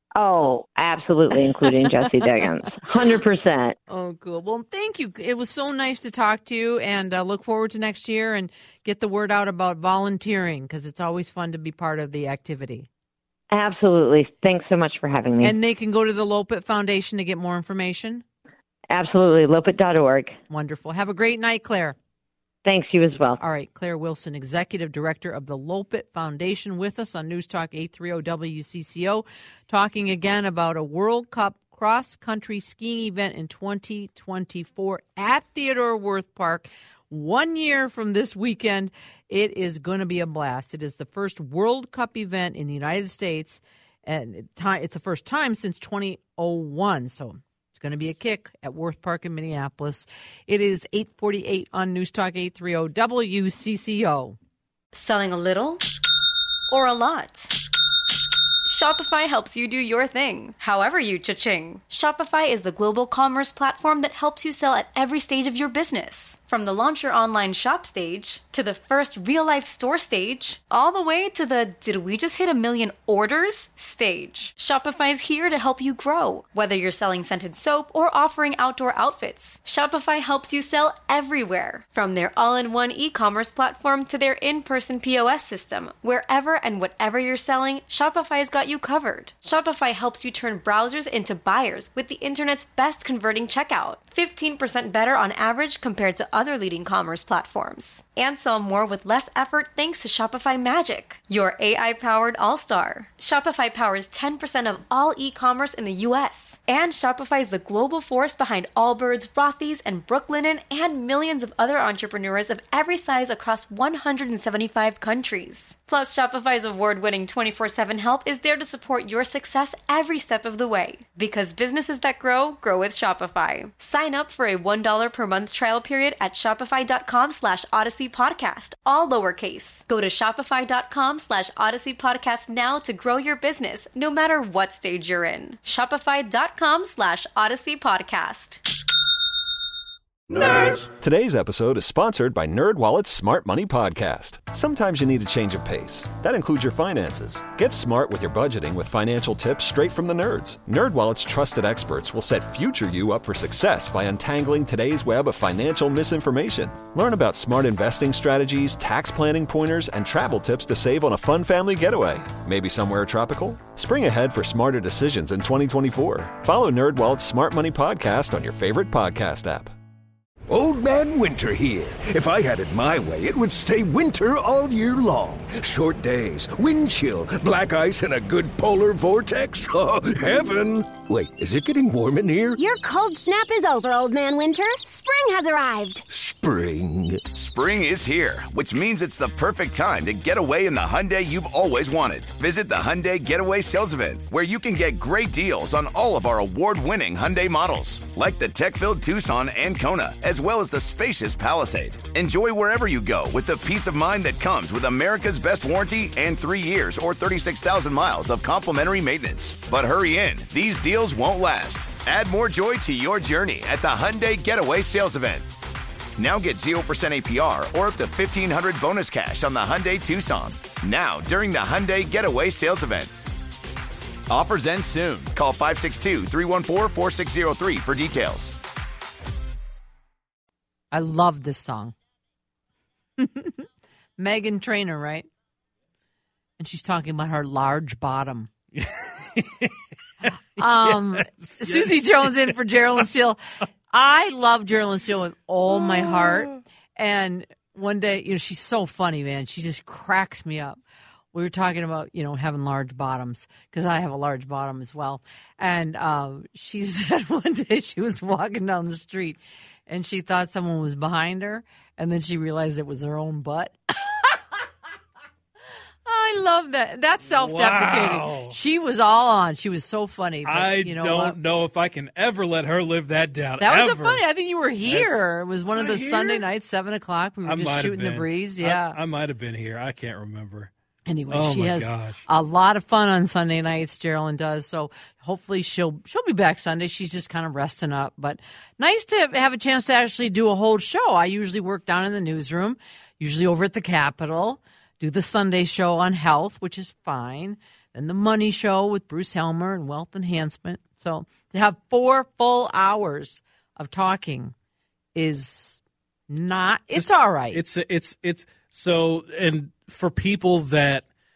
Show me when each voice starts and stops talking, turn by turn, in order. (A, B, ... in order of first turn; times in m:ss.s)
0:00.2-0:03.8 A
0:03.9-0:12.9 B
0:13.5-0:15.5 A
0:15.4-0:18.2 B
0:18.9-0:20.3 A
0:20.5-0:22.0 B
0:22.6-0:23.4 A
0:23.4-0:54.4 B
0:54.9-0:55.8 C
0:56.7-0:57.5 C
0:58.6-2:18.6 C
2:20.3-2:20.8 D
2:20.3-2:49.7 E
2:50.5-3:02.6 D
3:02.6-3:06.0 F
3:06.1-3:07.4 D
3:07.3-3:35.5 G
3:36.2-3:43.2 G
3:44.3-3:48.6 G
3:50.9-3:51.9 B
3:53.2-3:53.5 B
3:54.2-3:55.3 B
3:56.6-3:58.5 B
3:58.7-3:59.7 H
4:00.6-4:03.4 B
4:00.6-4:02.5 H
4:03.9-4:10.8 B
4:11.3-4:24.3 B
4:26.0-4:31.4 B
4:27.2-4:28.6 H
4:30.4-4:34.2 H
4:33.6-4:39.0 B
4:34.8-4:36.4 H
4:37.4-4:40.7 H
4:41.1-5:04.5 B
4:41.3-4:42.2 H
5:05.2-5:07.6 B
5:06.9-5:11.0 H